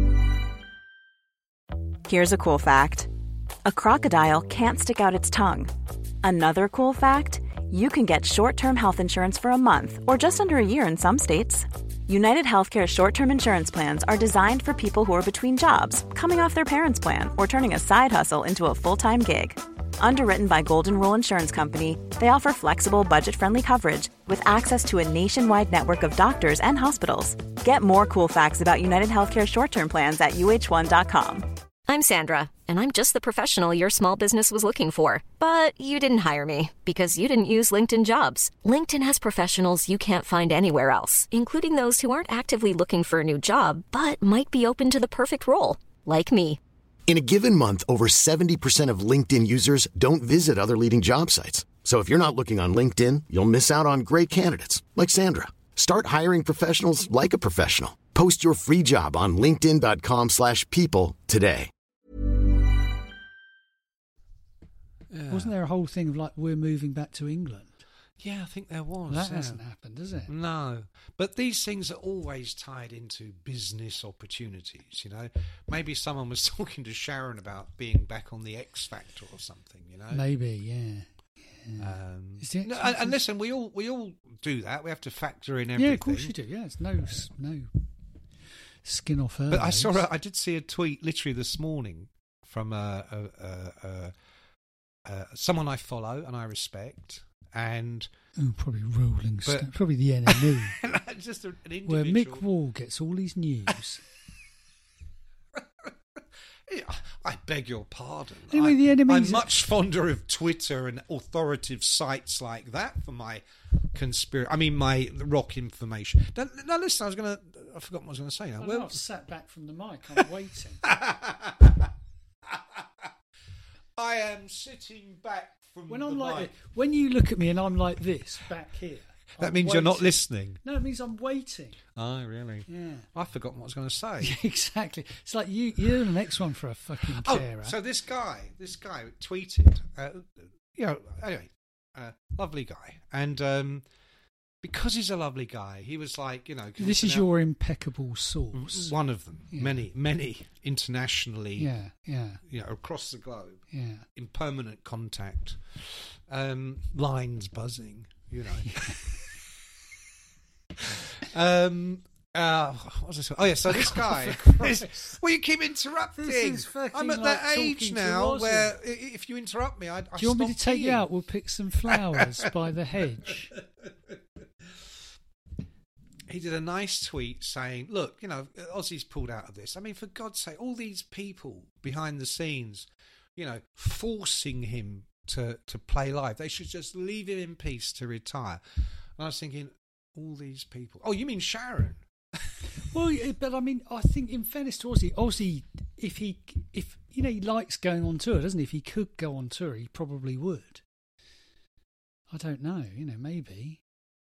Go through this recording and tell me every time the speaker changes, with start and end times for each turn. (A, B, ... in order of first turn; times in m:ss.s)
0:02.1-0:03.1 A
0:03.6-0:05.7 A
0:06.2-0:31.5 A
0:31.9-0:46.6 B
0:47.1-1:01.7 C
1:05.1-1:05.5 D
1:05.3-1:07.7 E
1:08.2-1:09.6 D
1:09.1-1:10.3 E
1:10.3-1:20.2 D
1:20.1-1:23.2 E
1:21.8-1:26.3 D
1:25.8-1:27.7 E
1:28.8-1:30.0 E
1:29.5-1:34.1 D
1:35.1-1:38.1 D
1:38.4-1:40.8 E
1:40.3-1:42.4 D
1:41.9-1:44.0 E
1:46.7-1:53.4 D
1:48.5-1:49.5 E
1:53.9-1:59.0 D
1:58.6-2:00.8 E
2:00.8-2:01.9 D
2:02.5-2:02.8 D
2:04.0-2:06.5 D
2:05.9-2:11.8 E
2:09.4-2:10.6 D
2:11.9-2:14.4 D
2:12.7-2:13.1 E
2:14.2-2:17.7 E
2:17.1-2:23.8 D
2:24.6-2:27.3 D
2:26.8-2:28.9 E
2:28.5-2:31.7 D
2:29.5-2:29.8 E
2:31.6-2:32.4 E
2:32.5-2:33.6 D
2:33.7-2:34.0 E
2:34.2-2:39.1 D
2:38.6-2:39.0 E
2:40.8-2:51.0 D
2:43.7-2:45.2 E
2:46.1-2:48.8 E
2:50.2-2:53.5 E
2:51.9-2:52.4 D
2:56.3-3:08.6 D
3:09.2-3:12.0 D
3:12.8-3:20.8 E
3:22.3-3:23.8 E